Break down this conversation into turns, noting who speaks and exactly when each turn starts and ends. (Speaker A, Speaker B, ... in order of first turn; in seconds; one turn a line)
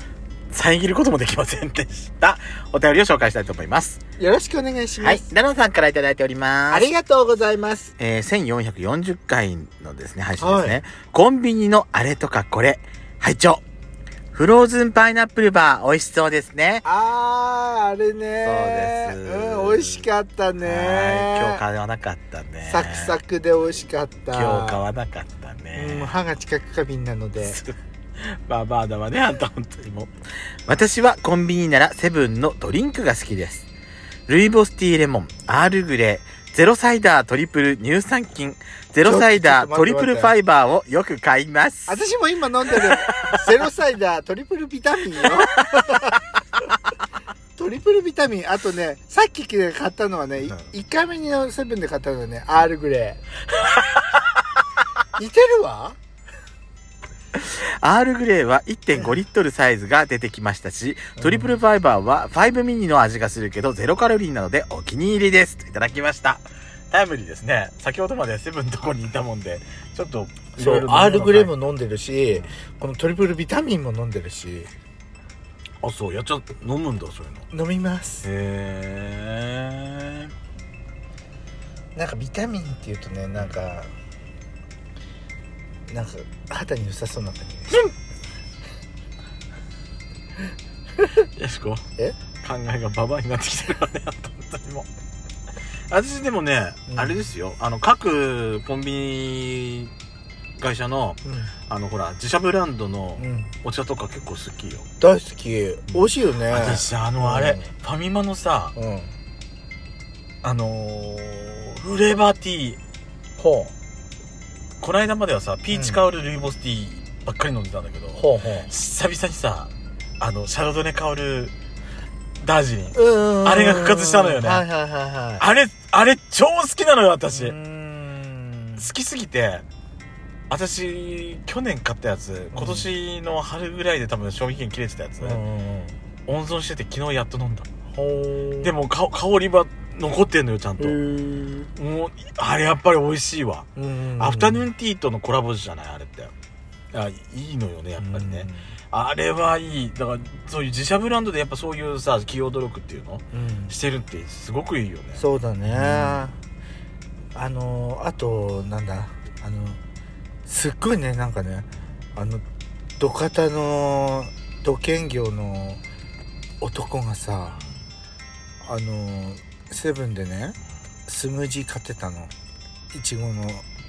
Speaker A: 0.5-4.0
Speaker B: 4.2-5.3
Speaker A: 5.0-6.9
Speaker B: 6.7-7.9
Speaker A: 8.0-13.6
Speaker B: 10.4-10.8
Speaker A: 14.3-16.9
Speaker B: 16.9-21.6
Speaker A: 18.4-20.1
Speaker A: 20.6-23.2
Speaker B: 22.7-24.8
Speaker A: 24.3-26.2
Speaker B: 25.8-27.6
Speaker A: 27.4-30.1
Speaker A: 30.7-33.7
Speaker A: 34.3-42.0
Speaker B: 39.0-40.4
Speaker B: 41.9-46.2
Speaker A: 43.0-43.4
Speaker B: 47.6-53.2
Speaker B: 55.1-56.0
Speaker A: 57.4-71.5
Speaker B: 61.2-61.5
Speaker B: 70.6-74.7
Speaker A: 75.8-77.5
Speaker B: 77.5-78.3
Speaker A: 78.2-80.3
Speaker B: 82.0-83.9
Speaker B: 85.9-87.9
Speaker A: 91.2-91.8
Speaker A: 92.4-94.9
Speaker A: 95.9-99.9
Speaker B: 96.9-97.2
Speaker A: 100.6-104.9
Speaker B: 101.2-101.5
Speaker B: 103.2-103.5
Speaker B: 105.0-107.7
Speaker A: 105.9-108.8
Speaker B: 108.8-109.1
Speaker A: 110.4-112.8
Speaker B: 113.4-113.7
Speaker A: 114.8-121.5
Speaker B: 115.7-116.0
Speaker B: 118.2-118.7
Speaker A: 122.4-124.6
Speaker B: 123.0-125.4
Speaker A: 125.4-127.6
Speaker B: 127.3-128.9
Speaker A: 128.8-129.7
Speaker A: 130.5-135.4
Speaker B: 132.5-132.9
Speaker B: 135.2-136.0
Speaker A: 136.3-137.7
Speaker B: 137.9-138.7
Speaker A: 138.6-141.0
Speaker B: 140.8-141.7
Speaker A: 141.7-146.3
Speaker B: 143.8-144.7
Speaker A: 146.9-156.2
Speaker B: 148.0-148.7
Speaker B: 153.3-153.7
Speaker B: 155.2-156.4
Speaker B: 157.3-159.8
Speaker B: 160.5-162.4
Speaker B: 163.0-165.8
Speaker B: 166.6-167.6
Speaker A: 167.5-167.8
Speaker B: 168.6-172.3
Speaker B: 172.9-173.7